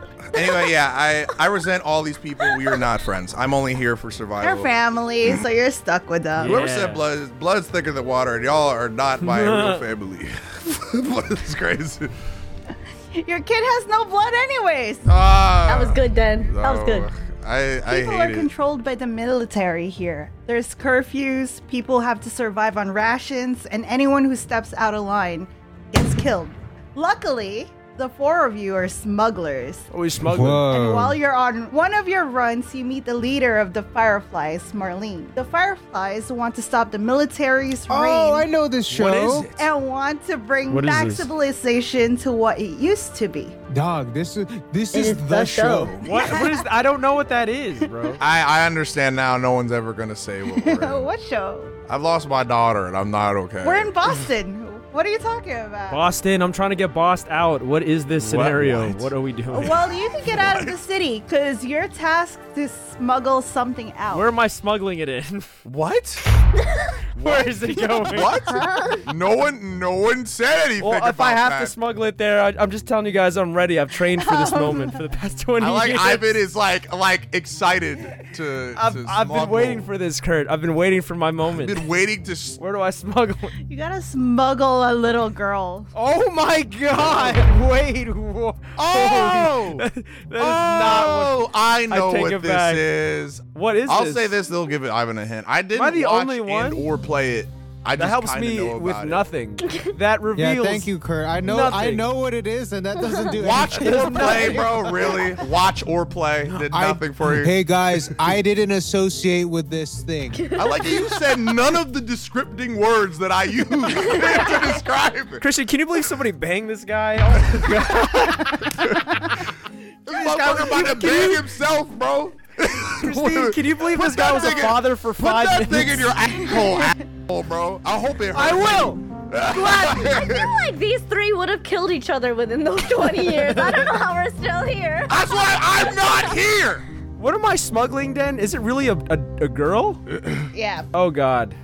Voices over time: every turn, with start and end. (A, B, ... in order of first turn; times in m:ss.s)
0:00.3-0:04.7 A
0:04.4-0:06.5 B
0:06.4-0:07.0 C
0:06.4-0:12.1 A
0:09.2-0:09.9 C
0:13.1-0:15.1 B
0:15.1-0:18.5 A
0:15.7-0:17.1 D
0:17.9-0:29.9 B
0:29.9-0:30.7 C
0:30.2-0:31.2 E
0:30.7-0:38.5 B
0:37.9-0:39.5 E
0:38.9-0:39.7 C
0:39.6-0:43.6 B
0:40.7-0:41.3 C
0:43.7-0:46.0 E
0:44.9-0:46.0 D
0:46.0-0:48.2 C
0:46.0-0:46.7 B
0:48.2-0:51.1 A
0:50.5-0:51.7 B
0:51.9-0:53.9 A
0:53.6-0:56.0 B
0:55.9-0:59.8 C
0:58.2-1:00.8 A
0:59.5-1:04.3 B
1:04.1-1:05.5 C
1:05.6-1:06.2 A
1:06.6-1:06.9 D
1:07.2-1:08.6 C
1:07.2-1:11.7 A
1:10.8-1:16.4 C
1:14.2-1:15.0 B
1:15.6-1:19.9 A
1:18.7-1:21.8 C
1:21.5-1:22.6 A
1:22.6-1:23.6 C
1:23.7-1:25.9 B
1:26.0-1:32.8 C
1:28.8-1:29.8 A
1:30.4-1:39.2 A
1:33.5-1:34.4 C
1:35.7-1:36.9 C
1:38.0-1:40.9 C
1:39.6-1:40.0 D
1:40.4-1:44.8 E
1:41.4-1:42.1 C
1:43.3-1:47.6 A
1:43.8-1:45.0 C
1:46.6-1:50.4 E
1:50.4-1:51.2 D
1:50.6-1:55.4 A
1:54.0-1:54.8 D
1:55.4-1:59.0 C
1:58.2-1:59.2 A
2:00.1-2:01.5 C
2:00.1-2:10.6 A
2:03.0-2:06.2 C
2:08.3-2:10.1 C
2:10.0-2:16.5 D
2:13.1-2:14.0 C
2:15.1-2:16.9 A
2:17.2-2:20.0 C
2:20.5-2:20.9 B
2:20.9-2:21.6 C